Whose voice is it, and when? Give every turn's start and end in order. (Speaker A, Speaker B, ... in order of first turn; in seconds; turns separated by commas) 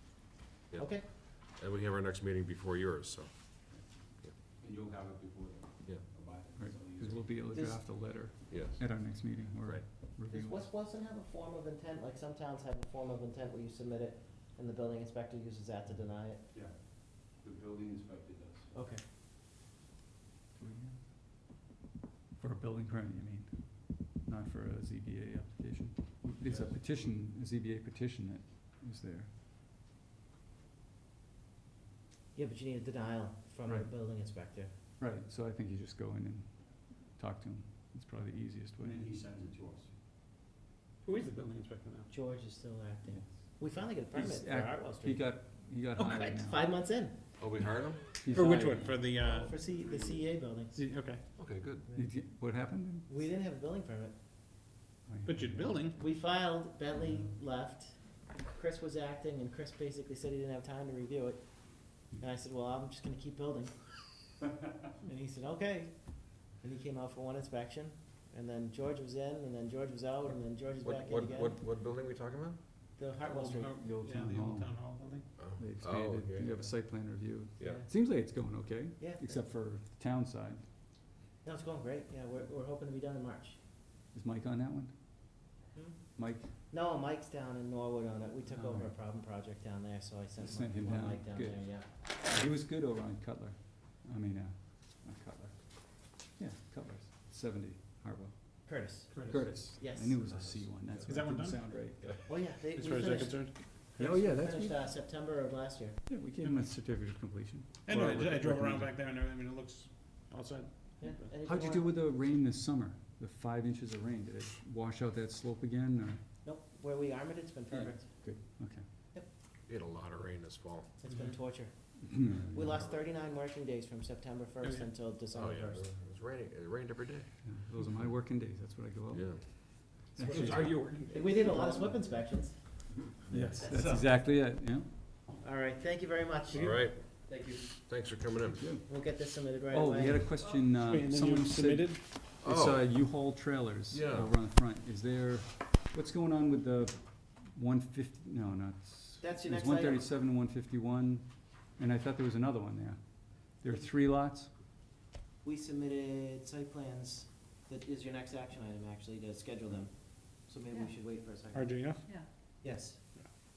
Speaker A: 0.7-4.3, Speaker B: 0.8-1.1, Speaker C: 4.6-7.3, Speaker D: 6.5-10.7, Speaker B: 7.5-7.8, Speaker A: 8.5-8.9, Speaker A: 9.6-9.9, Speaker B: 10.3-16.4, Speaker C: 16.5-18.7, Speaker B: 18.7-19.0, Speaker D: 20.5-21.0, Speaker D: 22.4-29.3, Speaker C: 26.4-26.8, Speaker B: 32.3-34.7, Speaker D: 33.6-33.9, Speaker D: 35.0-39.2, Speaker C: 38.8-40.0, Speaker E: 41.0-42.1, Speaker B: 42.1-45.4, Speaker D: 43.0-46.9, Speaker E: 46.0-46.3, Speaker B: 46.0-47.2, Speaker A: 47.4-48.2, Speaker D: 48.2-49.0, Speaker E: 48.3-49.5, Speaker B: 49.4-50.8, Speaker E: 50.7-51.2, Speaker A: 51.4-51.9, Speaker D: 51.9-53.2, Speaker B: 53.1-54.1, Speaker D: 55.1-55.8, Speaker E: 55.2-56.0, Speaker B: 55.9-64.1, Speaker B: 65.0-71.5, Speaker A: 70.8-72.6, Speaker B: 73.0-73.8, Speaker E: 73.3-75.3, Speaker D: 73.8-74.8, Speaker A: 75.4-76.7, Speaker D: 75.6-80.7, Speaker A: 77.6-77.8, Speaker B: 77.6-77.9, Speaker B: 79.0-79.4, Speaker B: 81.4-83.6, Speaker D: 84.1-84.9, Speaker B: 85.7-91.8, Speaker D: 86.2-86.5, Speaker D: 88.5-88.9, Speaker D: 90.4-102.2, Speaker B: 98.7-100.2, Speaker E: 99.1-99.4, Speaker C: 100.8-101.2, Speaker E: 101.1-101.6, Speaker B: 102.3-106.0, Speaker E: 102.5-103.6, Speaker D: 104.0-104.8, Speaker D: 106.1-108.9, Speaker E: 107.8-111.3, Speaker B: 111.0-111.9, Speaker D: 111.4-116.2, Speaker B: 116.4-118.6, Speaker D: 117.7-118.9, Speaker A: 119.7-121.0, Speaker B: 121.0-125.8, Speaker E: 121.1-121.4, Speaker D: 122.1-122.5, Speaker C: 122.3-122.7, Speaker A: 122.6-123.0, Speaker A: 125.3-127.4, Speaker D: 127.4-130.7, Speaker A: 129.1-131.5, Speaker B: 130.2-134.0, Speaker E: 130.3-131.8, Speaker C: 132.9-133.6, Speaker D: 133.3-134.9, Speaker B: 135.4-136.8, Speaker E: 136.5-136.9, Speaker A: 136.5-138.7, Speaker C: 137.3-137.6, Speaker D: 138.6-154.5, Speaker B: 138.9-140.2, Speaker E: 140.7-142.2, Speaker A: 142.4-143.0, Speaker A: 143.9-144.3, Speaker B: 149.2-150.1, Speaker B: 155.4-163.0, Speaker E: 161.5-162.6